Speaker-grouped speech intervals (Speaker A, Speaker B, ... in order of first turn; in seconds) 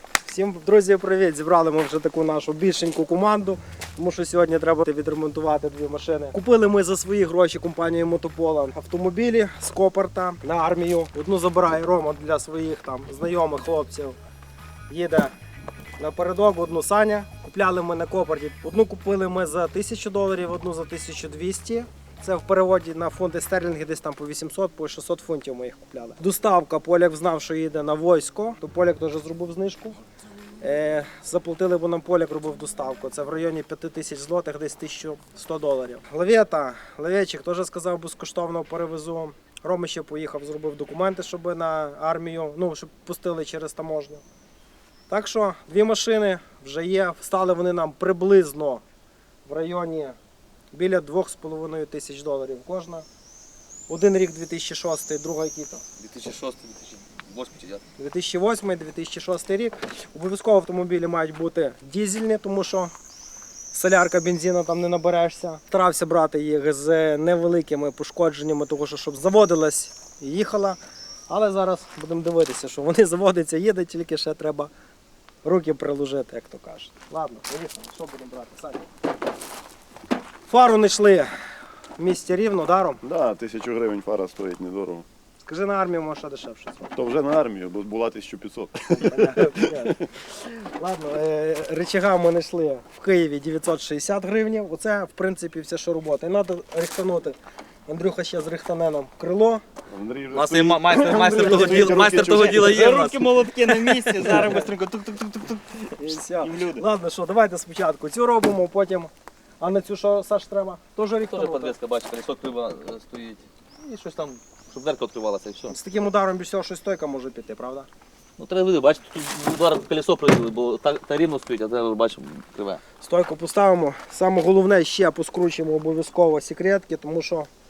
Speaker A: 0.2-14.2, 14.9-15.3, 16.0-30.0, 30.6-44.2, 45.1-48.8, 49.5-50.1, 50.7-53.0, 53.9-55.8, 58.0-62.9, 63.7-74.7, 75.4-78.8, 80.5-81.3, 82.0-83.0, 85.4-86.9, 88.9-97.3, 97.9-99.6, 101.2-101.9, 106.0-111.8, 115.7-117.9, 123.0-127.5
Speaker B: 56.0-57.8, 100.3-104.5, 111.3-115.8, 118.4-122.8
Speaker C: 83.0-85.0, 86.9-89.9, 99.9-102.8
Speaker D: 102.4-106.8